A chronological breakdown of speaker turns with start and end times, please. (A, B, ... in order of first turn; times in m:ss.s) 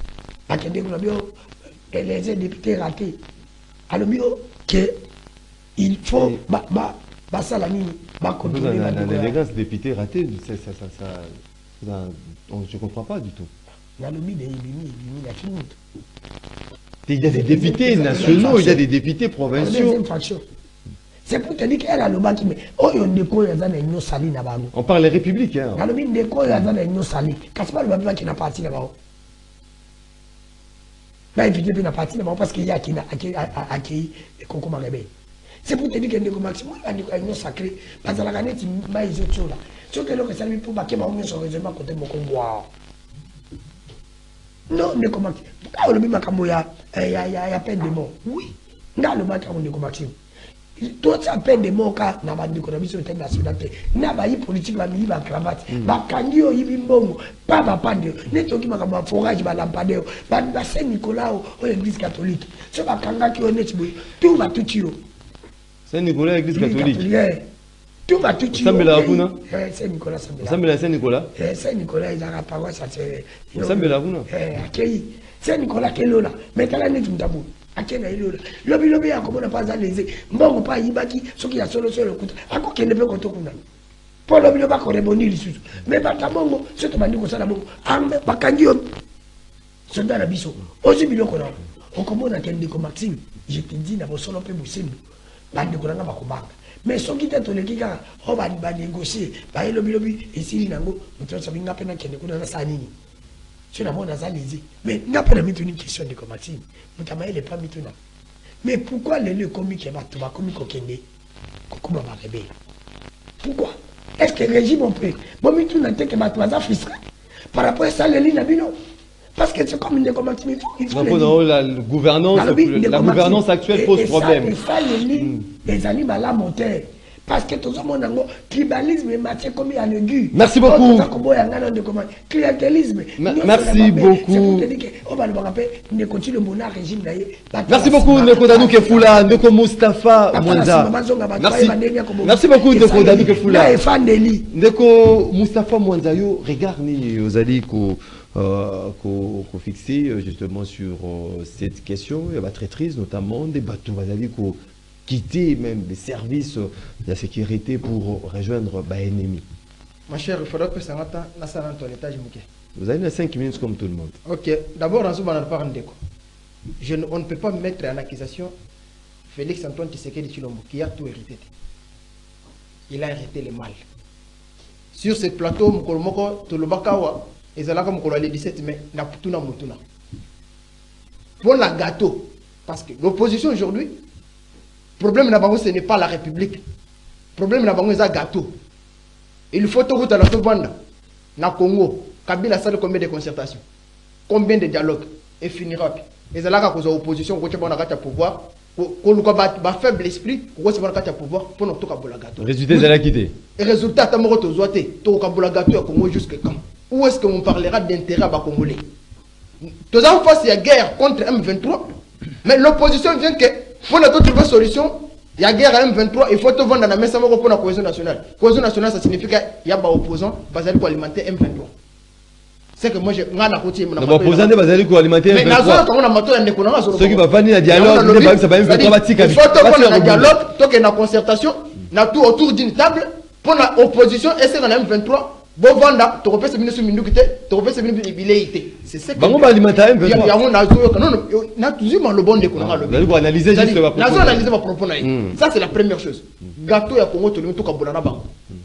0:00.5-0:01.3 A
0:01.9-0:03.2 A
0:03.9-0:05.0 A
0:05.8-0:09.4 A
0:06.2-0:06.4 B
0:08.4-0:13.5 B
0:14.0-0:15.7 A
0:17.1-0:20.0 B
0:17.3-0:18.8 A
0:19.5-0:20.4 A
0:21.2-0:24.7 A
0:24.7-0:25.8 B
0:25.8-0:28.9 A
0:31.3-0:35.1 A
0:35.6-0:42.7 A
0:44.7-0:50.1 A
0:50.8-1:05.0 A
0:55.7-0:56.0 B
1:05.9-1:07.1 B
1:06.5-1:07.4 A
1:08.1-1:10.6 A
1:08.5-1:09.4 B
1:10.4-1:11.3 B
1:11.3-1:23.6 A
1:13.6-1:14.3 B
1:24.3-1:28.9 A
1:29.9-1:35.0 A
1:35.5-1:42.9 A
1:43.7-1:47.9 A
1:48.6-1:51.0 A
1:51.7-1:52.5 A
1:53.4-1:57.0 A
1:57.5-1:58.7 A
1:59.4-2:01.4 A
2:00.9-2:04.5 B
2:02.3-2:19.4 A
2:05.2-2:05.4 B
2:10.3-2:11.1 B
2:13.2-2:14.7 B
2:17.7-2:23.8 B
2:20.3-2:24.5 A
2:24.5-2:39.4 B
2:40.1-2:42.4 C
2:42.8-2:44.1 B
2:44.2-2:46.0 C
2:46.8-2:48.5 C
2:49.3-2:51.5 C
2:52.9-2:53.8 C
2:54.9-2:59.8 C
3:01.4-3:04.0 C
3:05.0-3:06.6 C
3:07.4-3:08.6 C
3:09.5-3:10.7 C
3:11.4-3:13.6 C
3:14.3-3:23.0 C
3:22.4-3:23.3 B
3:23.6-3:28.9 C
3:29.6-3:31.9 C
3:32.4-3:41.7 C
3:42.8-3:44.5 C
3:44.0-3:45.8 B
3:45.3-4:08.3 C
3:46.9-3:50.3 B
3:59.2-4:00.4 B
4:02.5-4:05.4 B